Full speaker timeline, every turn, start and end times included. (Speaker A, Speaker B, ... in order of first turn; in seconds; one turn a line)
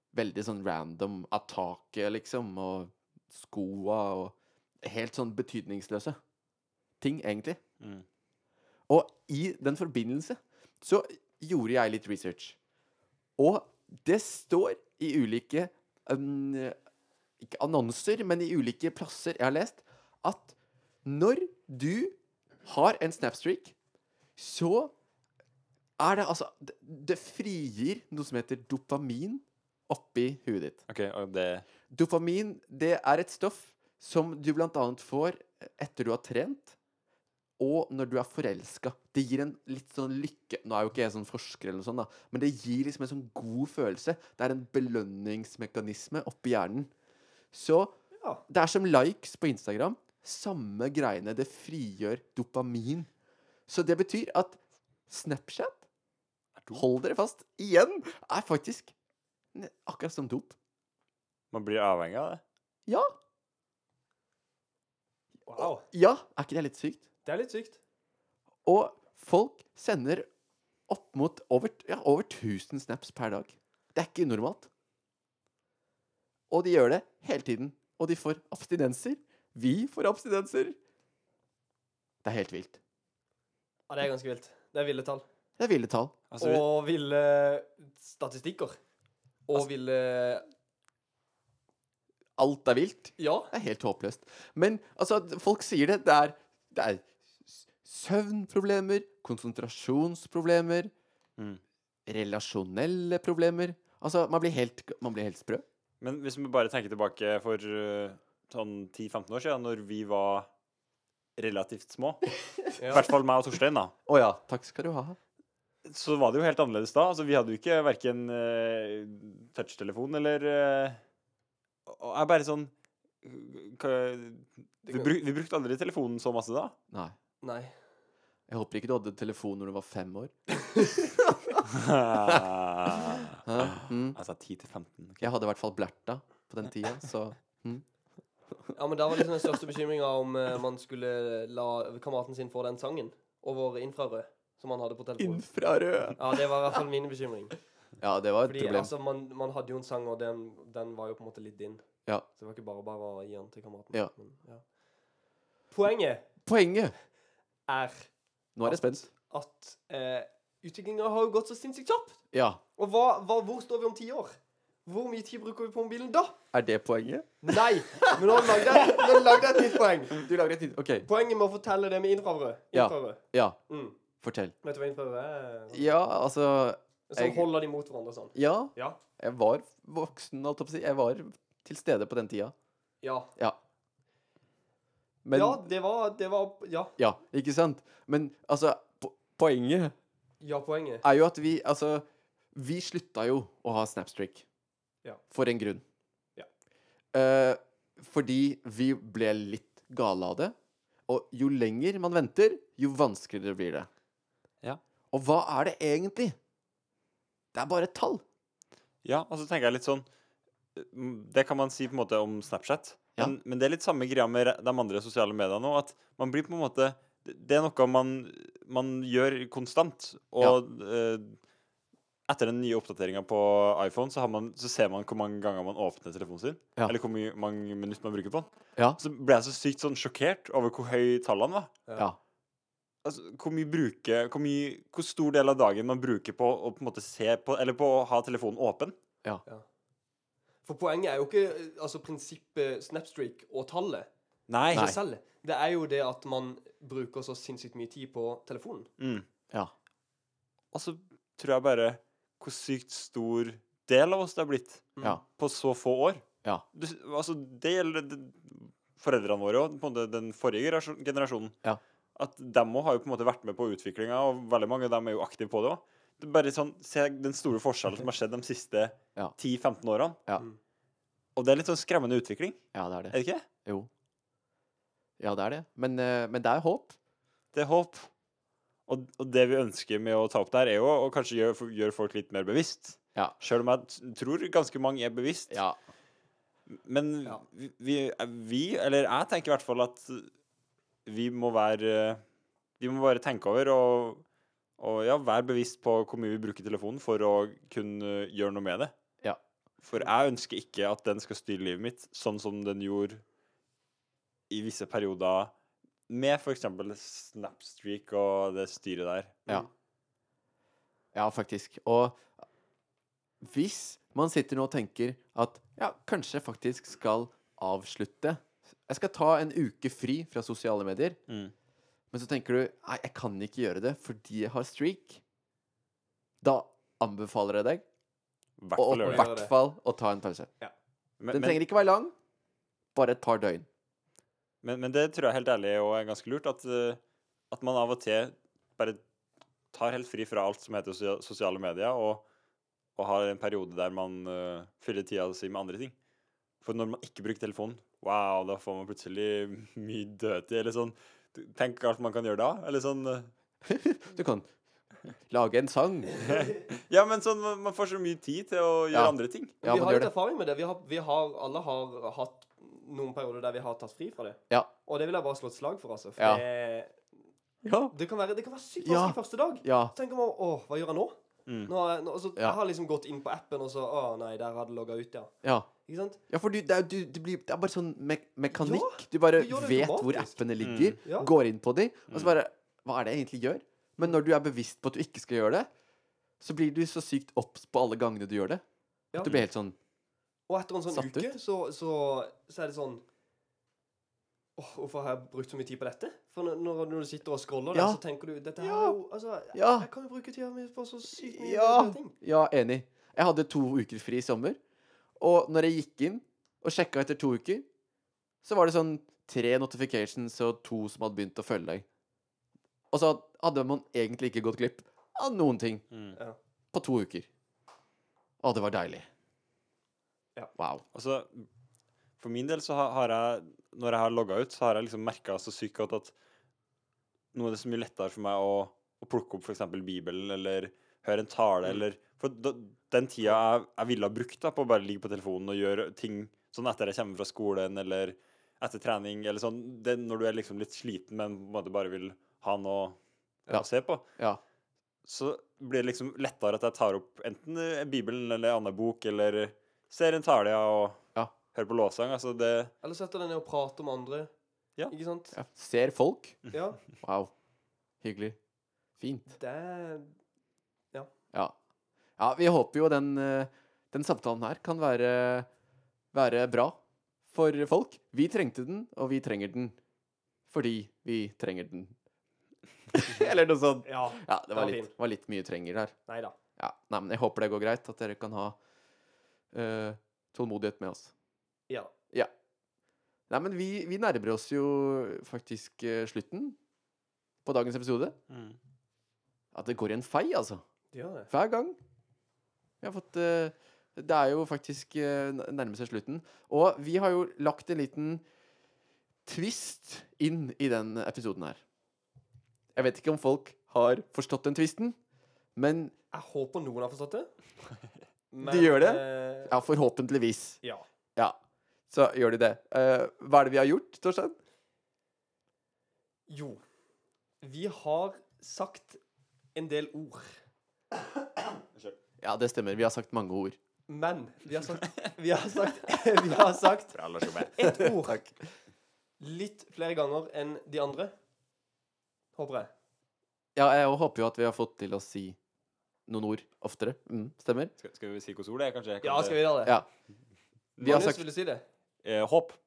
Speaker A: 0.1-6.2
Speaker A: 7.0-7.6
Speaker A: 8.9-12.6
Speaker A: 13.4-16.8
Speaker A: 17.4-23.7
Speaker A: 24.4-24.9
Speaker A: 26.0-30.8
Speaker B: 30.9-31.6
Speaker A: 31.9-36.7
Speaker A: 37.6-46.9
Speaker A: 47.5-47.9
Speaker A: 48.5-53.1
Speaker A: 53.7-55.8
Speaker B: 56.6-56.8
Speaker A: 56.7-58.9
Speaker A: 59.5-60.5
Speaker B: 61.5-62.4
Speaker A: 65.5-67.0
Speaker C: 65.5-65.8
Speaker C: 67.2-67.8
Speaker A: 68.6-70.3
Speaker A: 70.9-74.7
Speaker A: 76.5-80.8
Speaker A: 82.2-82.8
Speaker C: 83.9-85.2
Speaker A: 85.6-86.2
Speaker B: 86.3-86.7
Speaker C: 86.4-88.8
Speaker C: 89.5-90.5
Speaker A: 92.4-100.9
Speaker C: 93.2-93.5
Speaker A: 102.1-105.6
Speaker B: 106.0-110.5
Speaker B: 111.4-112.3
Speaker C: 112.8-113.0
Speaker B: 112.8-113.9
Speaker A: 114.0-115.2
Speaker B: 115.8-121.0
Speaker B: 121.9-122.7
Speaker B: 123.2-126.7
Speaker C: 124.9-125.1
Speaker C: 127.4-127.7
Speaker A: 128.5-130.3
Speaker C: 130.7-131.0
Speaker A: 131.2-131.6
Speaker B: 131.7-135.3
Speaker A: 132.1-134.2
Speaker A: 135.2-137.8
Speaker C: 138.7-145.4
Speaker A: 145.2-146.8
Speaker C: 146.2-147.5
Speaker A: 148.0-148.9
Speaker C: 148.4-151.8
Speaker C: 152.4-154.6
Speaker C: 155.7-156.3
Speaker A: 156.4-156.9
Speaker C: 157.7-158.1
Speaker A: 158.6-159.1
Speaker C: 158.6-162.2
Speaker A: 162.3-162.6
Speaker C: 162.8-166.4
Speaker A: 166.5-171.1
Speaker C: 167.4-170.2
Speaker C: 171.1-173.9
Speaker A: 172.7-173.6
Speaker A: 174.2-174.5
Speaker C: 174.6-175.8
Speaker A: 175.7-177.5
Speaker C: 177.1-179.0
Speaker A: 178.3-182.5
Speaker C: 183.0-183.3
Speaker A: 185.2-185.7
Speaker C: 185.3-186.9
Speaker A: 187.0-189.9
Speaker C: 190.4-191.0
Speaker A: 191.0-194.4
Speaker A: 195.3-195.8
Speaker A: 197.1-200.5
Speaker A: 201.1-203.9
Speaker A: 205.1-206.4
Speaker A: 207.5-208.2
Speaker B: 209.0-210.1
Speaker B: 210.8-221.4
Speaker B: 222.3-231.7
Speaker B: 233.0-238.9
Speaker C: 240.6-244.1
Speaker B: 244.5-244.9
Speaker A: 244.7-245.0
Speaker C: 244.7-248.9
Speaker B: 249.0-249.2
Speaker B: 250.7-261.6
Speaker B: 262.1-270.2
Speaker B: 271.4-273.4
Speaker A: 272.7-273.9
Speaker A: 275.2-277.0
Speaker B: 277.5-278.1
Speaker B: 278.9-285.6
Speaker A: 285.5-285.8
Speaker B: 286.7-290.3
Speaker B: 291.1-292.2
Speaker B: 292.8-294.2
Speaker B: 294.8-298.9
Speaker B: 299.8-303.2
Speaker B: 304.5-305.5
Speaker B: 306.1-309.4
Speaker A: 311.1-312.3
Speaker A: 313.4-321.2
Speaker A: 322.1-325.2
Speaker A: 326.4-327.8
Speaker B: 328.6-329.3
Speaker A: 328.8-330.5
Speaker C: 329.0-329.5
Speaker B: 331.2-331.6
Speaker A: 331.3-332.1
Speaker A: 332.9-333.7
Speaker B: 334.6-337.0
Speaker B: 337.5-339.0
Speaker B: 339.7-342.2
Speaker B: 342.9-345.9
Speaker B: 346.6-353.3
Speaker A: 353.6-354.5
Speaker A: 355.1-356.4
Speaker B: 356.2-359.6
Speaker A: 358.9-360.1
Speaker C: 359.6-367.0
Speaker A: 366.2-366.4
Speaker A: 367.6-367.9
Speaker C: 367.9-375.3
Speaker A: 368.8-369.9
Speaker C: 375.9-376.2
Speaker A: 376.3-385.7
Speaker C: 378.5-380.4
Speaker B: 380.6-381.0
Speaker C: 381.0-381.3
Speaker B: 382.1-382.4
Speaker A: 386.4-388.6
Speaker A: 389.2-389.8
Speaker C: 390.5-393.0
Speaker A: 390.9-391.4
Speaker C: 394.6-402.1
Speaker A: 397.7-398.0
Speaker A: 398.6-399.0
Speaker A: 399.5-399.9
Speaker A: 401.1-404.6
Speaker A: 405.2-407.6
Speaker A: 408.4-411.9
Speaker A: 412.9-415.9
Speaker B: 415.9-416.2
Speaker A: 416.7-417.3
Speaker A: 418.4-419.1
Speaker A: 420.6-420.8
Speaker B: 420.9-421.4
Speaker B: 422.2-426.1
Speaker B: 427.3-443.0
Speaker B: 443.5-444.0
Speaker B: 445.1-451.0
Speaker B: 451.5-452.7
Speaker C: 452.8-454.3
Speaker C: 454.9-455.4
Speaker A: 455.3-456.4
Speaker C: 456.5-456.8
Speaker A: 457.0-457.3
Speaker A: 458.0-458.4
Speaker A: 459.0-459.3
Speaker C: 459.3-460.1
Speaker A: 462.2-465.5
Speaker A: 466.1-469.8
Speaker A: 470.5-471.9
Speaker A: 472.9-475.9
Speaker C: 473.9-474.9
Speaker C: 476.1-476.4
Speaker A: 476.6-478.6
Speaker A: 479.5-481.1
Speaker A: 483.3-486.6
Speaker A: 487.4-488.2
Speaker B: 488.3-488.6
Speaker A: 489.5-490.6
Speaker C: 490.9-491.3
Speaker A: 491.3-491.8
Speaker A: 492.8-498.2
Speaker A: 499.2-501.6
Speaker A: 502.8-505.0
Speaker A: 505.6-505.9
Speaker C: 506.1-507.3
Speaker C: 508.3-509.6
Speaker A: 508.4-510.6
Speaker A: 511.9-514.4
Speaker C: 516.3-516.6
Speaker C: 517.4-519.0
Speaker C: 519.5-520.3
Speaker A: 522.2-523.6
Speaker C: 523.9-528.2
Speaker B: 526.9-527.8
Speaker C: 529.2-531.1
Speaker C: 532.4-532.7
Speaker A: 533.5-535.4
Speaker A: 536.1-537.7
Speaker B: 537.8-539.6
Speaker C: 539.0-539.8
Speaker B: 540.8-541.1
Speaker A: 540.8-541.2
Speaker C: 540.8-541.6
Speaker B: 542.0-542.6